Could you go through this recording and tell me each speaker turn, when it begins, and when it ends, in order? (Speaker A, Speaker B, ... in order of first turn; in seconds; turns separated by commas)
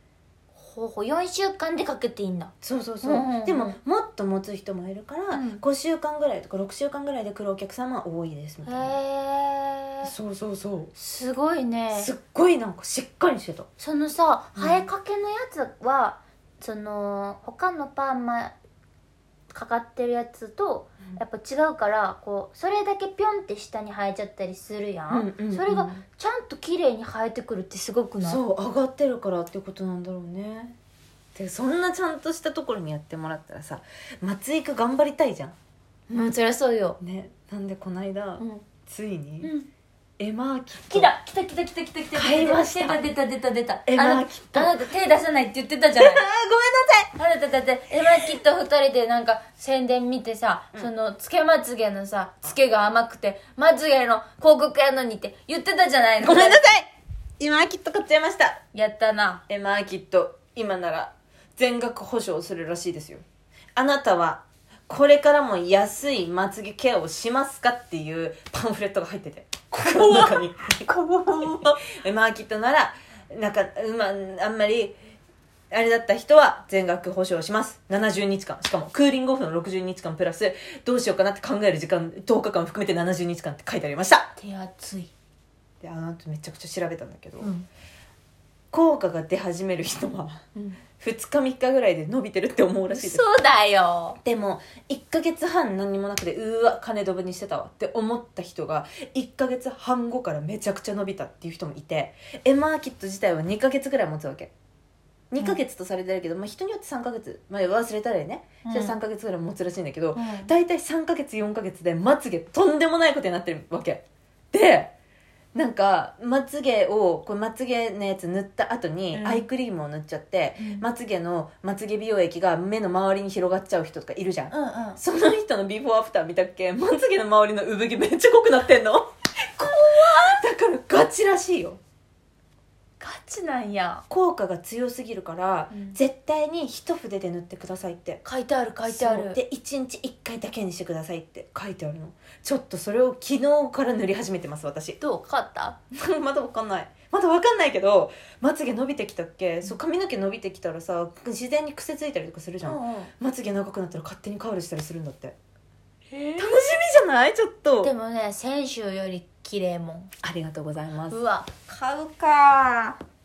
Speaker A: 0.5-3.8, Speaker B: 2.6-9.0, Speaker A: 5.3-5.6, Speaker A: 8.6-10.1, Speaker B: 10.0-10.9, Speaker A: 10.9-12.1, Speaker B: 11.9-13.7, Speaker A: 13.8-18.5, Speaker B: 14.5-14.9, Speaker A: 19.5-28.4, Speaker B: 25.1-26.0, Speaker B: 28.2-30.8, Speaker B: 31.3-35.5, Speaker A: 36.1-37.0, Speaker B: 37.0-39.5, Speaker A: 38.4-38.6, Speaker A: 39.4-39.7, Speaker B: 40.2-41.1, Speaker A: 40.9-46.2, Speaker B: 42.1-43.1, Speaker B: 43.9-44.9, Speaker B: 46.0-47.1, Speaker A: 47.1-56.6, Speaker B: 47.9-48.4, Speaker B: 56.2-56.9, Speaker B: 57.4-58.6, Speaker A: 58.7-59.4, Speaker B: 59.5-63.2, Speaker B: 63.8-74.9, Speaker B: 75.7-84.3, Speaker A: 84.4-85.1, Speaker B: 85.8-87.5, Speaker A: 87.4-87.7, Speaker B: 88.7-93.2, Speaker A: 92.9-94.2, Speaker B: 94.2-104.5, Speaker B: 105.3-114.9, Speaker A: 108.6-109.0, Speaker A: 110.1-110.5, Speaker B: 115.5-131.8, Speaker A: 119.1-119.5, Speaker A: 120.6-120.8, Speaker A: 124.5-125.0, Speaker A: 129.6-130.4, Speaker A: 133.0-134.0, Speaker B: 134.1-138.2, Speaker A: 135.7-136.0, Speaker A: 138.2-139.4, Speaker B: 138.8-145.0, Speaker A: 145.0-145.8, Speaker B: 145.9-155.3, Speaker A: 152.6-153.1, Speaker A: 156.1-156.8, Speaker B: 156.4-157.9, Speaker A: 157.8-160.1, Speaker B: 160.2-161.2, Speaker A: 161.1-162.1, Speaker B: 161.8-163.0